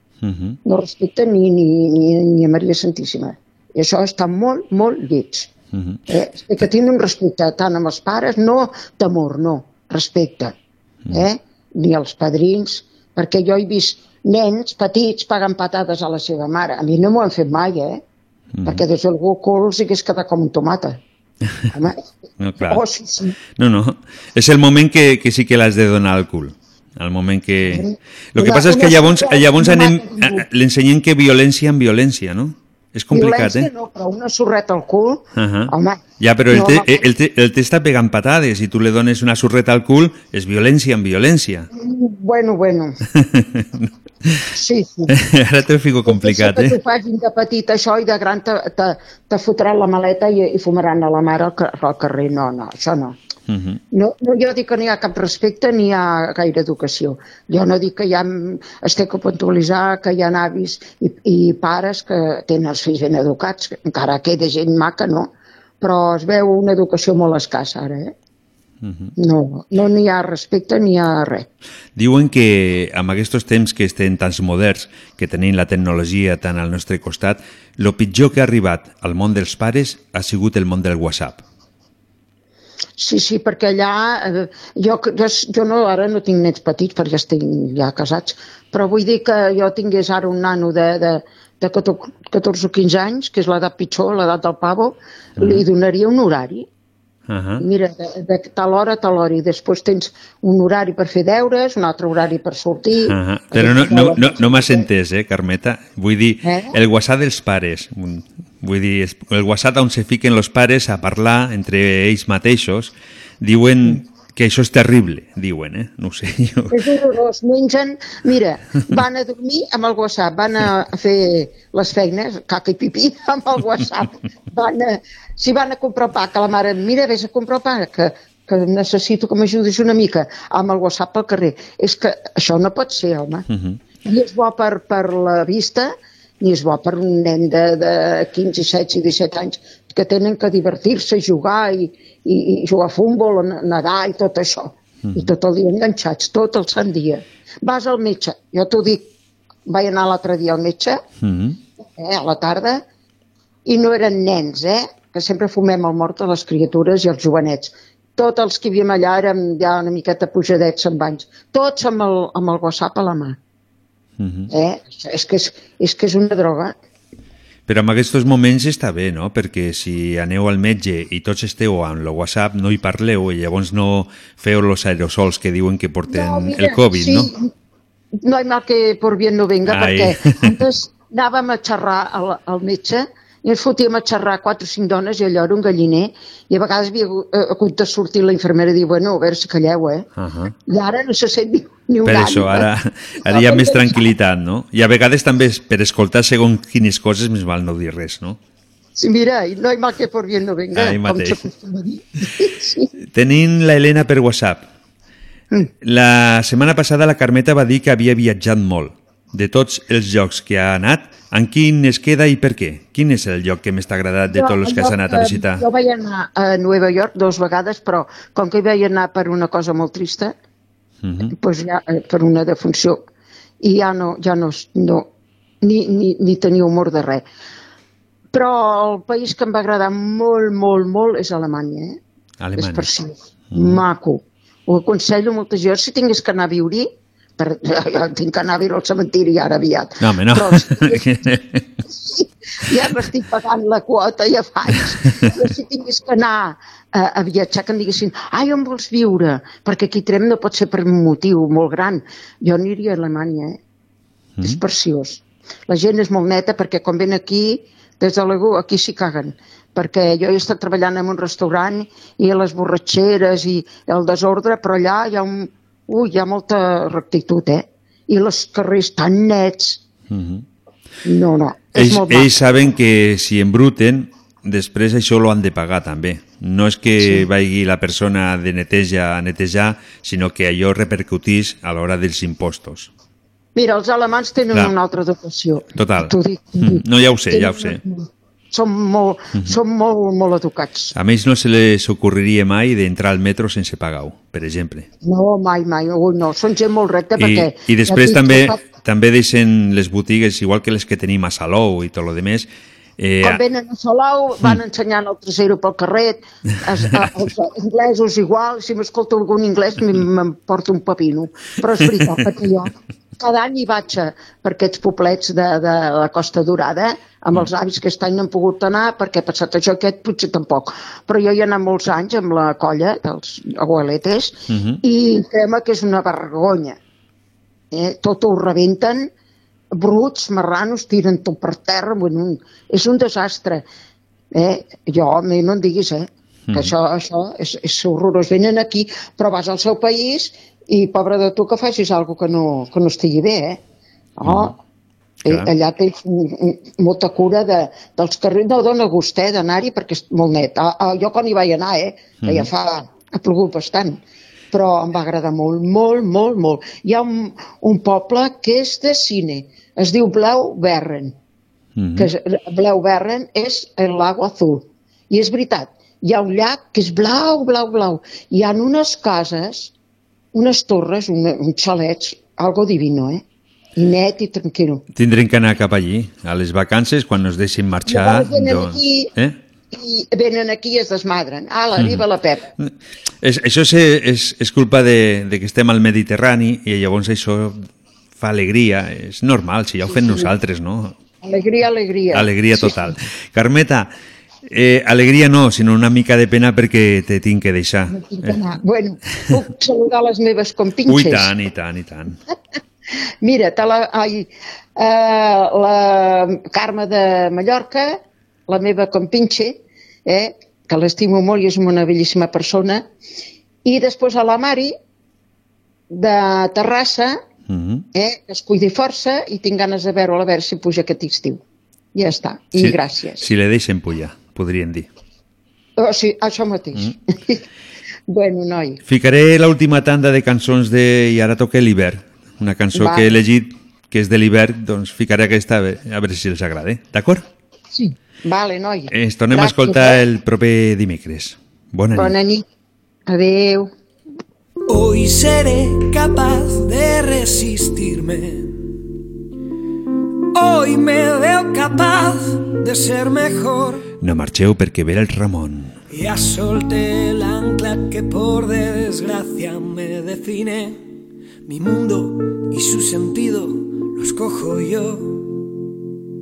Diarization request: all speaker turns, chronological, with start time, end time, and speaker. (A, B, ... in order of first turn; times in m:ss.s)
0:00.2-0:00.6 A
0:00.6-0:05.5 B
0:05.7-0:06.0 A
0:06.1-0:10.5 B
0:11.1-0:18.0 B
0:18.5-0:18.8 A
0:18.6-0:21.0 B
0:21.7-0:22.0 B
0:22.4-0:22.8 A
0:22.6-0:23.4 B
0:23.6-0:33.7 A
0:27.7-0:30.4 B
0:33.1-0:37.0 B
0:35.4-0:41.7 A
0:41.7-0:43.0 B
0:43.1-0:44.4 A
0:44.5-0:45.1 B
0:45.1-0:46.8 A
0:46.1-0:53.2 B
0:53.5-0:53.8 A
0:53.9-1:08.1 B
1:08.8-1:09.1 A
1:09.2-1:11.5 B
1:12.0-1:21.4 A
1:23.0-1:36.7 B
1:35.4-1:35.6 A
1:37.3-1:37.6 A
1:37.6-1:44.8 B
1:43.0-1:56.8 A
1:46.4-1:46.7 B
1:56.7-2:13.4 B
2:13.5-2:13.8 A
2:14.0-2:29.0 B
2:25.0-2:25.3 A
2:29.6-2:31.0 B
2:31.2-2:31.6 A
2:32.0-2:32.8 B
2:33.7-2:43.4 B
2:44.2-2:44.5 A
2:44.5-2:46.7 B
2:47.7-2:57.3 A
2:56.1-2:57.5 B
2:58.2-3:10.1 B
2:59.6-3:00.6 A
3:10.2-3:10.5 A
3:10.7-3:12.7 B
3:12.0-3:18.4 A
3:13.2-3:14.0 B
3:19.0-3:22.9 B
3:20.7-3:21.4 A
3:23.1-3:24.7 A
3:25.8-3:35.6 A
3:34.3-3:40.3 B
3:41.0-3:41.3 A
3:41.3-3:43.0 B
3:43.6-3:45.1 B
3:45.6-3:47.2 B
3:48.3-3:52.0 B
3:52.4-3:52.9 A
3:52.6-4:01.0 B
3:53.5-3:53.8 A
4:00.0-4:01.6 A
4:01.8-4:13.6 B
4:14.4-4:29.8 B
4:30.1-4:30.4 A
4:31.0-4:32.3 B
4:31.8-4:42.9 A
4:43.5-4:50.9 B
4:45.7-4:47.8 A
4:50.9-4:54.9 A
4:55.0-4:58.6 B
4:57.2-5:03.4 A
5:03.2-5:26.8 B
5:06.8-5:07.1 A
5:24.5-5:24.8 A
5:27.7-5:29.1 B
5:29.7-5:33.6 B
5:34.3-5:43.6 B
5:36.5-5:36.7 A
5:44.2-5:44.5 B
5:44.2-5:44.6 A
5:45.2-5:45.5 A
5:45.2-5:54.0 B
5:52.2-5:52.5 A
5:54.5-6:01.1 B
6:01.8-6:02.1 A
6:01.9-6:09.7 B
6:10.3-6:13.2 B
6:13.8-6:14.8 B
6:14.9-6:19.4 A
6:17.9-6:19.1 B
6:19.7-6:22.5 B
6:21.8-6:22.1 A
6:22.6-6:27.6 A
6:28.2-6:31.0 A
6:29.9-6:30.3 B
6:31.2-6:32.9 B
6:32.1-6:33.9 A
6:34.5-6:38.4 A
6:37.9-6:41.3 B
6:40.8-6:42.2 A
6:43.2-6:52.8 B
6:53.6-6:54.7 B
6:55.9-6:57.2 B
6:57.5-6:57.8 A
6:57.9-7:01.4 B
7:01.9-7:03.3 B
7:02.5-7:04.9 A
7:05.8-7:07.4 B
7:08.1-7:08.8 B
7:08.8-7:17.2 A
7:12.7-7:13.2 B
7:17.7-7:20.0 B
7:18.9-7:22.2 A
7:21.9-7:22.4 B
7:23.1-7:23.7 B
7:24.7-7:28.6 C
7:30.3-7:33.8 C
7:34.0-7:35.7 A
7:35.9-7:40.8 C
7:41.5-7:45.3 C